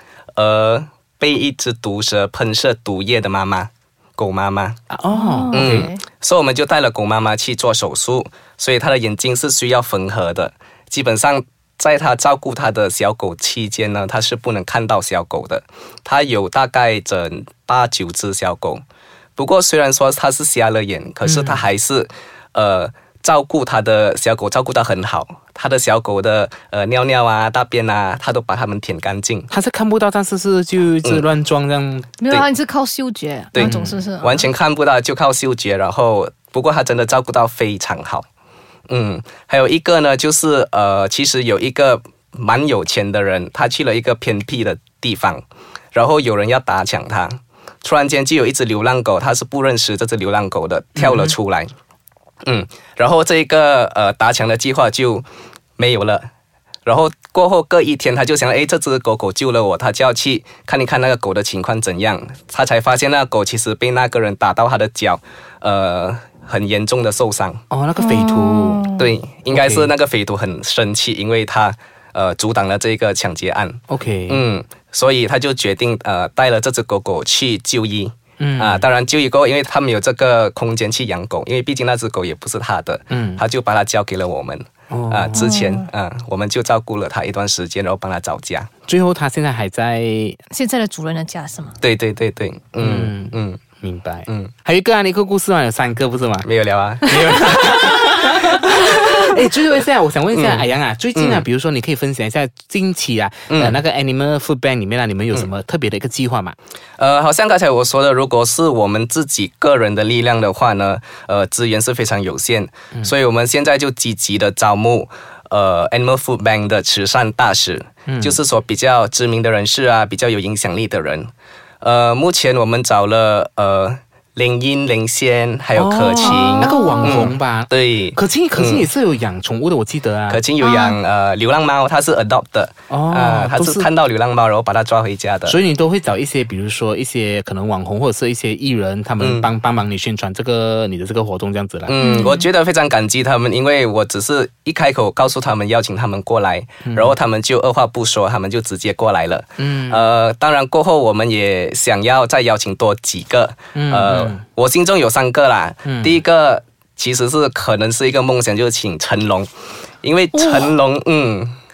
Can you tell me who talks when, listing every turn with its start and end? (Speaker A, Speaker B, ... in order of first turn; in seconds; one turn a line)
Speaker A: 0.4-4.8
Speaker B: 4.9-5.9
Speaker C: 5.1-6.0
Speaker A: 5.5-18.8
Speaker A: 19.4-29.5
Speaker B: 21.2-21.6
Speaker B: 29.5-32.1
Speaker C: 32.2-34.5
Speaker A: 33.5-38.3
Speaker A: 38.9-51.7
Speaker B: 51.0-51.4
Speaker A: 52.5-55.3
Speaker A: 55.8-56.2
Speaker A: 56.9-67.6
Speaker B: 67.7-68.9
Speaker C: 68.0-69.1
Speaker A: 69.0-88.7
Speaker B: 69.5-69.9
Speaker B: 73.9-74.4
Speaker B: 78.4-78.9
Speaker B: 83.1-83.4
Speaker B: 84.9-85.6
Speaker C: 85.3-85.8
Speaker B: 88.9-90.4
Speaker C: 90.5-91.8
Speaker A: 91.8-93.6
Speaker B: 92.8-96.5
Speaker A: 94.3-94.5
Speaker A: 96.4-97.9
Speaker B: 97.0-106.5
Speaker A: 100.3-101.5
Speaker A: 103.5-103.8
Speaker A: 107.0-121.3
Speaker B: 118.1-118.4
Speaker A: 121.8-128.9
Speaker B: 125.8-130.4
Speaker C: 126.2-127.2
Speaker A: 130.3-135.6
Speaker C: 130.6-131.0
Speaker B: 132.9-133.9
Speaker B: 135.4-142.0
Speaker A: 139.2-139.5
Speaker A: 141.8-159.5
Speaker C: 142.0-142.5
Speaker B: 146.9-147.2
Speaker B: 149.6-150.0
Speaker B: 153.8-154.4
Speaker B: 155.9-156.2
Speaker A: 160.0-161.6
Speaker C: 160.3-160.7